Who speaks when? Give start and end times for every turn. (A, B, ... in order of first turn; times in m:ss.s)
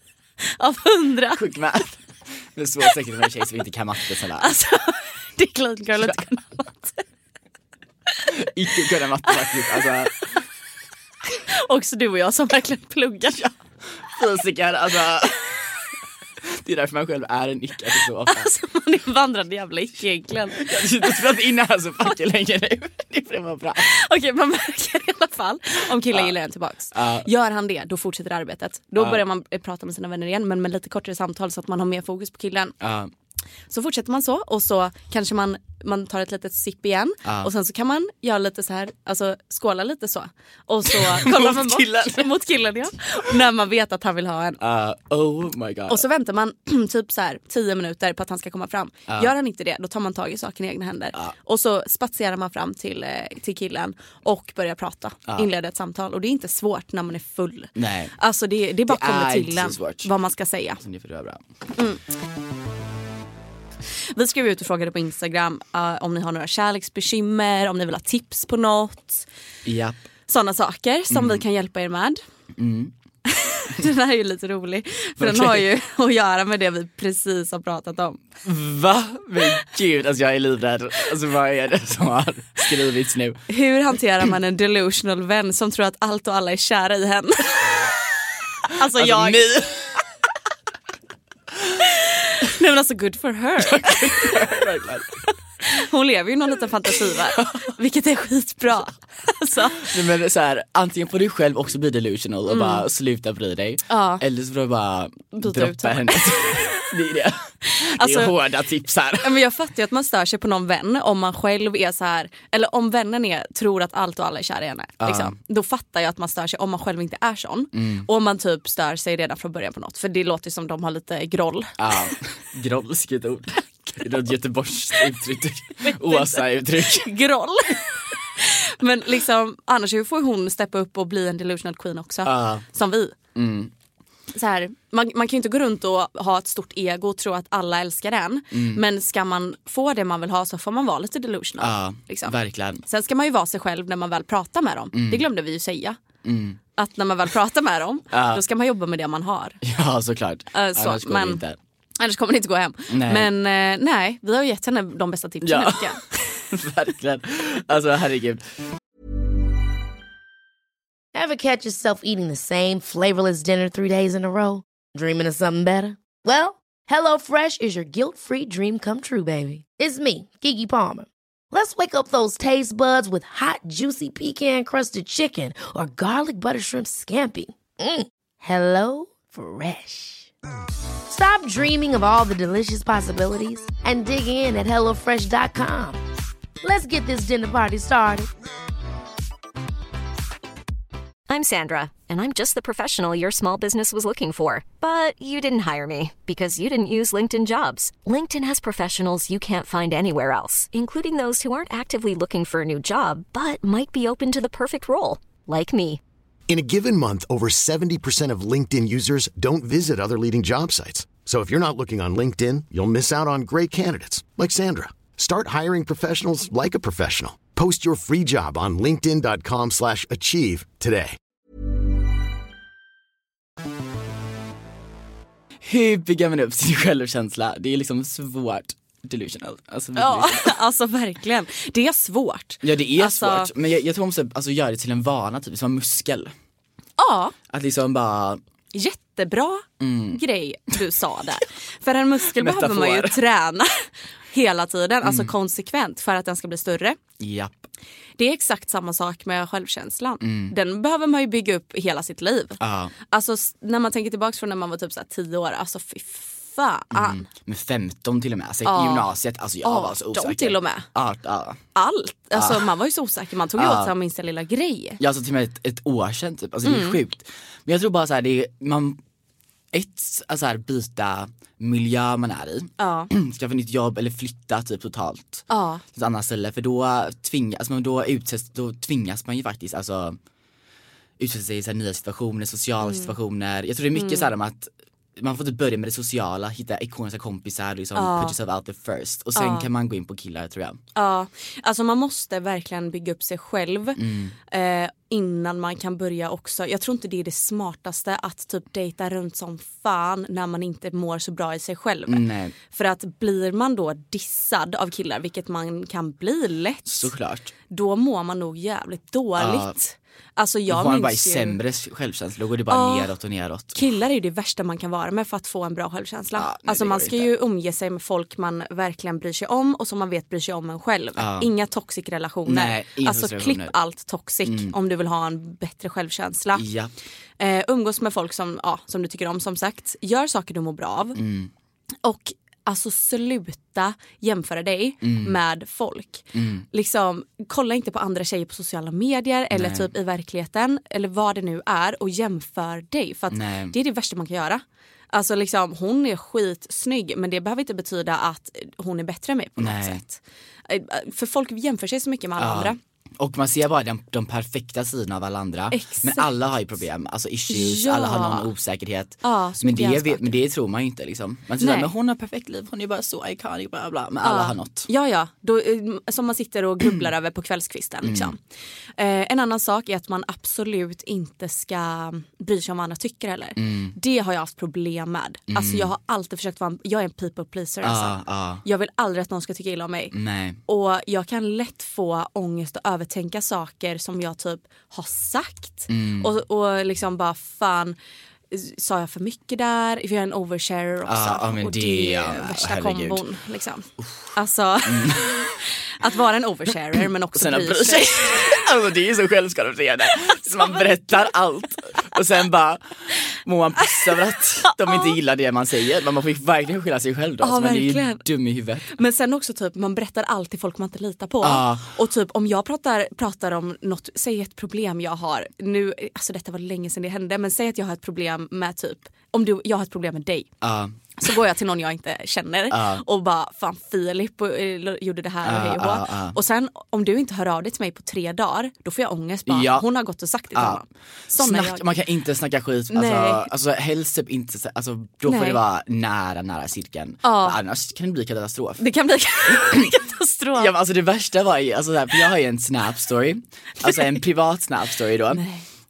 0:00.4-0:01.6 A
0:01.3-0:04.5 B
0:04.4-0:07.0 A
0:08.3-0:10.3 B
0:09.3-0:09.8 A
0:11.3-0:13.5 A
0:14.1-0:15.4 B
0:16.5-0:18.5 B
0:18.2-0:21.2 A
0:20.5-0:23.9 B
0:23.8-0:32.8 A
0:26.9-0:27.3 B
0:32.8-0:33.1 B
0:33.7-0:44.6 A
0:37.2-0:37.5 B
0:40.9-0:42.3 B
0:44.6-0:46.0 B
0:45.9-1:00.8 A
0:57.7-0:58.1 B
0:58.8-1:00.1 B
1:00.8-1:01.4 B
1:01.7-1:02.0 A
1:04.0-1:09.2 A
1:09.6-1:10.0 B
1:10.3-1:12.2 A
1:11.1-1:11.4 B
1:12.6-1:12.9 B
1:13.2-1:18.2 A
1:15.2-1:15.7 B
1:18.4-1:23.4 B
1:23.5-1:27.8 A
1:28.7-1:29.5 A
1:28.9-1:29.9 B
1:31.8-1:34.4 A
1:33.6-1:35.2 B
1:35.6-1:39.9 A
1:37.4-1:37.7 B
1:39.8-1:49.4 B
1:42.5-1:42.8 A
1:43.9-1:44.2 A
1:45.3-1:46.7 A
1:47.7-1:48.3 A
1:49.2-2:02.1 A
1:55.0-1:55.4 B
1:57.7-1:58.1 B
2:01.8-2:07.1 B
2:05.8-2:13.2 A
2:12.2-2:12.6 B
2:13.3-2:13.7 B
2:14.3-2:22.3 A
2:18.5-2:18.8 B
2:21.6-2:22.8 B
2:22.8-2:26.0 A
2:24.9-2:25.2 B
2:26.2-2:26.6 B
2:26.8-2:29.6 A
2:28.1-2:28.4 B
2:29.6-2:31.6 B
2:30.5-2:31.4 A
2:32.0-2:36.4 A
2:32.9-2:33.3 B
2:35.4-2:38.5 B
2:41.1-3:00.3 C
3:01.1-3:06.0 C
3:06.6-3:08.3 C
3:11.3-3:26.0 D
3:26.5-3:41.2 E
3:45.6-3:50.6 B
3:50.0-3:53.5 A
3:52.6-3:56.3 B
3:57.0-3:57.3 A
3:57.5-3:58.4 B
3:58.7-4:07.0 A
3:59.8-4:00.2 B
4:02.3-4:03.2 B
4:05.0-4:05.3 B
4:07.2-4:07.7 B
4:08.2-4:12.6 A
4:10.2-4:10.5 B
4:12.6-4:12.9 B
4:13.1-4:17.3 A
4:16.9-4:21.6 B
4:18.6-4:19.1 A
4:19.6-4:20.9 A
4:21.7-4:25.0 A
4:22.3-4:22.6 B
4:23.6-4:23.9 B
4:25.0-4:29.0 B
4:26.6-4:27.0 A
4:29.7-4:40.2 B
4:32.8-4:33.1 A
4:35.5-4:35.8 A
4:41.2-4:50.8 B
4:42.8-4:43.1 A
4:43.9-4:44.3 A
4:47.9-4:48.4 A
4:49.4-4:49.7 A
4:50.9-5:07.1 A
4:54.0-4:54.4 B
5:02.1-5:02.5 B
5:06.9-5:07.5 B
5:07.7-5:11.6 A
5:09.4-5:09.8 B
5:10.7-5:13.8 B
5:12.7-5:13.1 A
5:13.7-5:26.7 A
5:16.3-5:17.3 B
5:21.2-5:21.5 B
5:22.4-5:23.7 B
5:24.4-5:24.7 B
5:26.5-5:26.9 B
5:27.4-5:31.2 A
5:31.2-5:31.5 B
5:32.0-5:52.8 A
5:35.0-5:35.3 B
5:36.3-5:36.6 B
5:39.5-5:39.9 B
5:43.3-5:43.7 B
5:49.6-5:50.0 B
5:52.4-6:04.9 B
5:55.7-5:56.3 A
5:57.5-5:58.5 A
5:59.2-6:00.4 A
6:01.6-6:01.9 A
6:04.2-6:08.4 A
6:08.0-6:08.3 B
6:08.9-6:20.1 A
6:13.6-6:13.9 B
6:15.5-6:15.9 B
6:17.8-6:18.6 B
6:20.1-6:20.6 B
6:20.6-6:28.0 A
6:25.9-6:26.3 B
6:28.5-6:38.5 A
6:31.0-6:33.2 B
6:34.8-6:35.5 B
6:37.3-6:49.0 B
6:40.5-6:41.0 A
6:43.8-6:45.1 A
6:47.4-6:48.2 A
6:48.9-7:00.5 A
6:51.4-6:51.9 B
7:00.6-7:01.1 B
7:01.2-7:11.8 A
7:02.7-7:03.0 B
7:05.4-7:06.4 B
7:09.4-7:09.8 B
7:10.5-7:18.9 B
7:12.9-7:13.5 A
7:15.2-7:15.6 A
7:17.2-7:17.6 A
7:18.8-7:20.7 A
7:19.5-7:19.8 B
7:20.5-7:25.4 B
7:23.8-7:24.1 A
7:25.3-7:25.6 A